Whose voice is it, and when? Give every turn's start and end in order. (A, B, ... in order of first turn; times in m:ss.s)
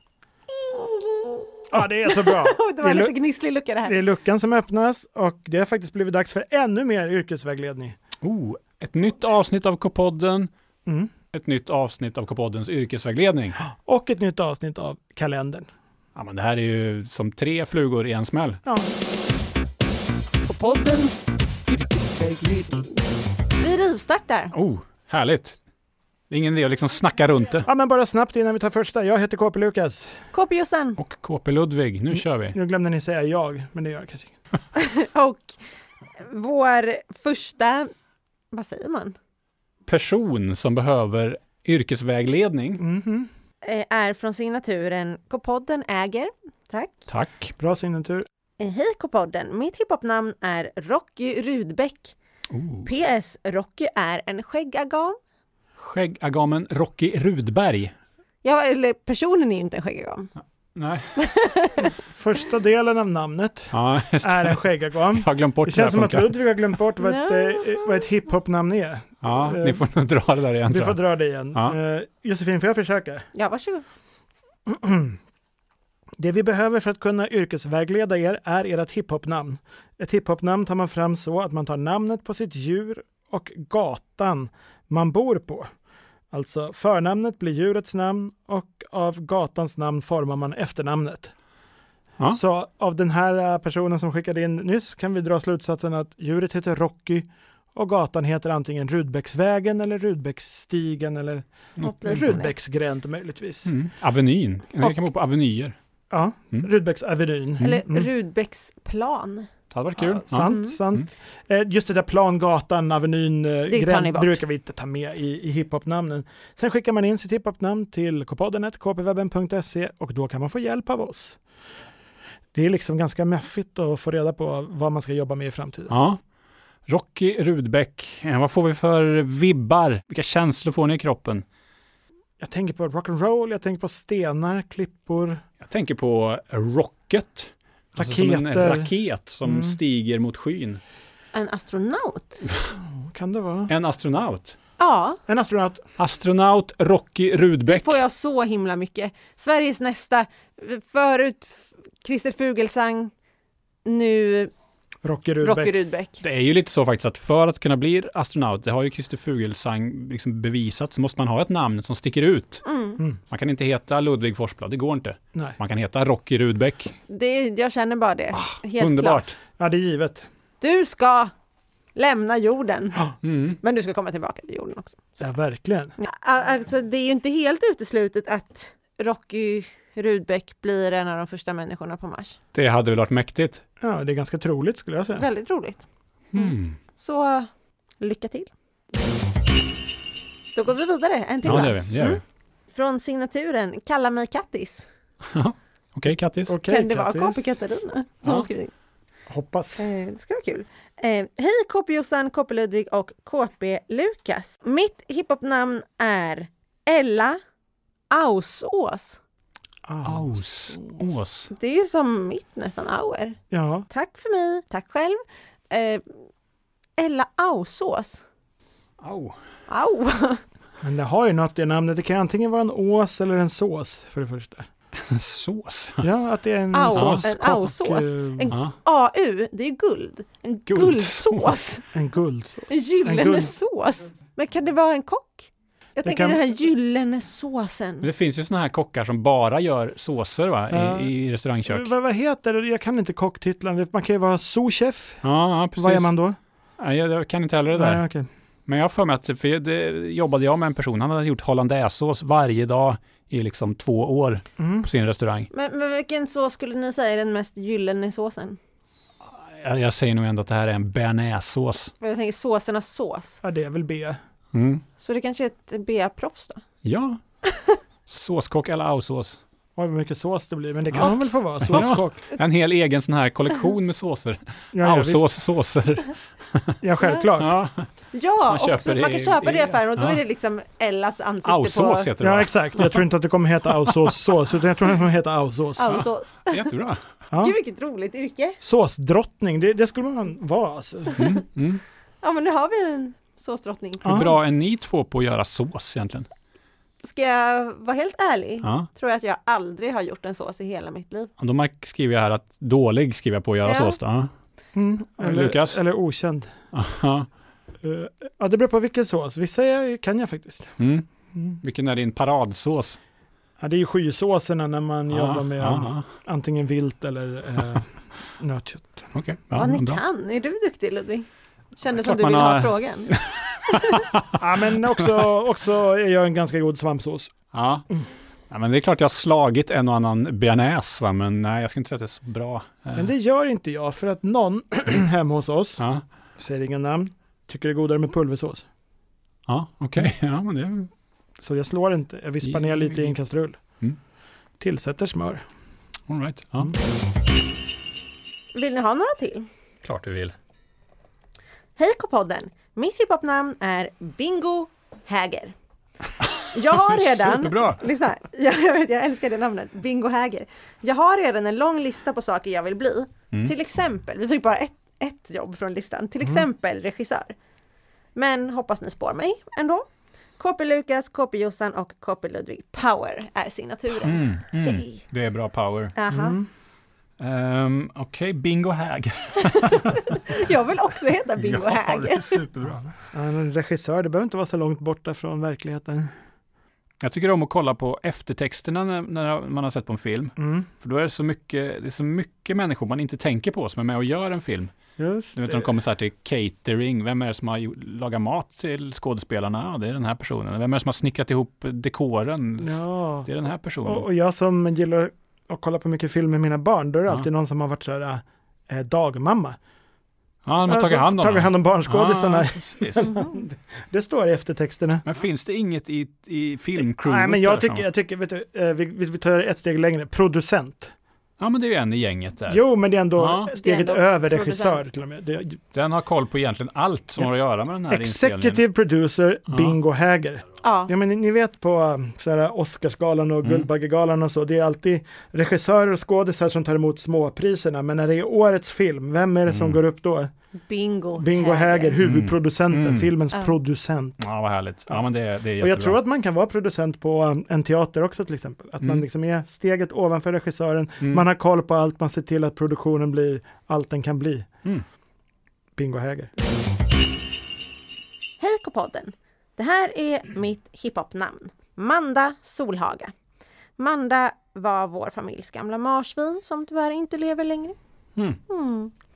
0:00.5-0:04.0 A
0:01.7-0:03.2 B
0:03.8-0:08.0 B
0:08.2-0:10.5 C
0:11.3-0:13.6 C
0:13.6-0:15.7 B
0:16.2-0:18.6 C
0:20.5-0:21.2 A
0:21.8-0:22.9 A
0:23.6-0:24.5 A
0:24.5-0:25.6 C
0:26.3-0:27.7 C
0:27.7-0:30.1 B
0:30.3-0:31.0 A
0:31.0-0:32.6 C
0:32.5-0:34.3 B
0:34.7-0:35.6 A
0:36.2-0:37.9 A
0:38.5-0:39.1 A
0:39.8-0:42.8 C
0:42.8-0:43.3 B
0:43.6-0:47.0 A
0:47.1-0:47.5 C
0:47.6-0:48.2 B
0:48.6-0:52.1 A
0:52.5-0:52.9 C
0:52.8-0:55.2 A
0:55.8-0:57.9 C
0:58.4-1:00.3 A
1:00.7-1:01.2 C
1:01.2-1:01.9 A
1:02.1-1:09.8 B
1:03.7-1:06.3 C
1:07.0-1:08.1 A
1:09.2-1:11.0 C
1:10.7-1:13.2 B
1:13.3-1:13.8 A
1:14.7-1:15.2 B
1:16.2-1:25.7 B
1:26.3-1:31.3 B
1:32.3-1:41.4 B
1:41.8-1:42.5 A
1:42.0-1:43.7 B
1:43.6-1:45.7 C
1:44.8-1:45.0 B
1:46.1-1:48.1 B
1:47.6-1:49.5 A
1:49.7-1:51.0 C
1:50.0-2:01.4 B
1:50.4-1:50.8 A
1:53.7-1:54.4 A
2:02.5-2:05.9 B
2:05.9-2:06.2 C
2:06.9-2:11.4 C
2:12.4-2:15.4 B
2:15.6-2:20.8 C
2:17.9-2:19.8 B
2:21.3-2:22.4 A
2:22.8-2:23.7 B
2:23.7-2:24.6 C
2:24.8-2:25.2 A
2:25.3-2:25.8 B
2:26.0-2:28.0 C
2:27.7-2:33.1 A
2:33.8-2:34.5 A
2:35.0-2:35.7 B
2:35.4-2:36.2 A
2:36.2-2:42.6 C
2:42.6-2:43.0 A
2:43.3-2:47.0 C
2:47.1-2:49.3 A
2:48.3-2:49.4 C
2:49.6-2:50.2 B
2:50.6-2:51.3 A
2:51.9-2:55.2 A
2:53.2-2:53.6 C
2:55.2-2:55.9 B
2:56.0-3:02.4 A
3:02.5-3:03.6 C
3:03.8-3:05.3 B
3:05.2-3:05.8 A
3:06.3-3:06.8 C
3:06.4-3:07.5 A
3:08.0-3:08.5 A
3:10.5-3:12.2 A
3:11.4-3:11.8 B
3:11.4-3:12.2 C
3:12.7-3:14.8 A
3:15.3-3:16.6 C
3:16.5-3:17.6 B
3:16.6-3:18.7 A
3:19.3-3:19.8 B
3:19.8-3:27.4 A
3:28.1-3:29.2 A
3:29.8-3:31.0 B
3:30.0-3:31.5 C
3:31.5-3:33.4 A
3:33.5-3:33.9 B
3:33.9-3:36.2 A
3:37.0-3:38.2 A
3:39.0-3:39.3 C
3:39.7-3:40.4 A
3:40.8-3:44.7 B
3:45.1-3:46.1 C
3:46.0-3:48.5 B
3:46.7-3:51.8 A
3:46.9-3:47.3 C
3:50.7-3:51.6 C
3:51.9-3:53.5 B
3:52.7-3:58.1 A
3:56.0-3:56.4 B
3:58.0-4:01.9 C
4:00.7-4:05.2 B
4:05.2-4:06.1 C
4:05.8-4:06.4 B
4:06.8-4:08.0 C
4:07.7-4:08.3 B
4:08.7-4:15.5 C
4:14.6-4:14.9 B
4:15.5-4:18.6 A
4:19.2-4:21.9 C
4:22.0-4:23.4 A
4:23.4-4:24.2 B
4:24.5-4:24.8 C
4:25.0-4:26.6 A
4:26.8-4:27.2 C
4:28.1-4:29.4 C
4:29.8-4:32.2 B
4:30.9-4:36.7 C
4:34.7-4:35.3 B
4:36.8-4:37.5 B
4:37.4-4:37.9 C
4:38.1-4:42.1 A
4:38.5-4:40.2 C
4:41.4-4:43.0 C
4:42.2-4:46.0 B
4:43.8-4:44.1 C
4:45.8-4:46.7 A
4:45.9-4:47.0 C
4:47.3-4:47.6 B
4:47.4-4:48.6 A
4:48.6-4:51.2 B
4:51.2-4:51.8 C
4:52.2-4:54.3 A
4:54.0-4:54.3 B
4:54.0-4:56.3 C
4:57.0-5:01.3 A
4:58.6-4:58.9 C
5:01.4-5:04.3 C
5:03.6-5:04.0 A
5:04.7-5:06.5 B
5:05.2-5:05.8 C
5:06.7-5:07.3 C
5:07.8-5:10.8 B
5:10.8-5:11.0 C
5:11.3-5:11.6 B
5:11.6-5:13.0 C
5:13.6-5:19.1 B
5:15.1-5:16.1 C
5:19.1-5:20.0 C
5:19.5-5:23.1 A
5:22.0-5:24.4 C
5:23.7-5:24.0 A
5:24.4-5:27.3 B
5:27.5-5:27.8 C
5:28.5-5:33.1 C
5:32.9-5:35.8 B
5:36.4-5:38.6 B
5:39.5-5:40.9 C
5:41.4-5:43.6 B
5:42.4-5:43.2 C
5:44.6-5:45.4 B
5:46.1-5:46.7 C
5:48.5-5:49.5 A
5:49.8-5:50.3 C
5:51.8-5:55.5 A
5:56.5-6:07.3 A
5:56.7-5:57.8 C
6:08.1-6:09.8 A
6:10.4-6:15.0 A
6:14.0-6:15.9 C
6:15.9-6:16.4 A
6:16.1-6:16.5 B
6:17.2-6:20.2 C
6:20.1-6:22.4 A
6:21.4-6:22.9 C
6:23.1-6:26.1 B
6:27.0-6:34.7 C
6:30.4-6:30.7 B
6:35.0-6:35.7 B
6:35.4-6:44.0 C
6:42.6-6:43.3 B
6:43.8-6:49.6 B
6:50.4-6:53.1 C
6:50.6-6:55.0 B
6:55.0-6:57.8 C
6:56.9-7:00.9 B
7:01.4-7:02.6 C
7:02.5-7:05.6 B
7:03.2-7:03.5 C
7:03.6-7:04.8 A
7:05.7-7:08.6 C
7:07.9-7:20.3 B
7:09.5-7:09.8 C
7:10.6-7:10.9 A
7:19.5-7:19.8 C
7:20.7-7:22.0 A
7:21.2-7:24.2 B
7:22.0-7:23.1 C
7:24.2-7:26.0 C
7:25.6-7:34.5 B
7:35.8-7:36.3 B
7:38.4-7:43.1 A
7:43.8-7:47.7 A
7:48.5-7:48.9 A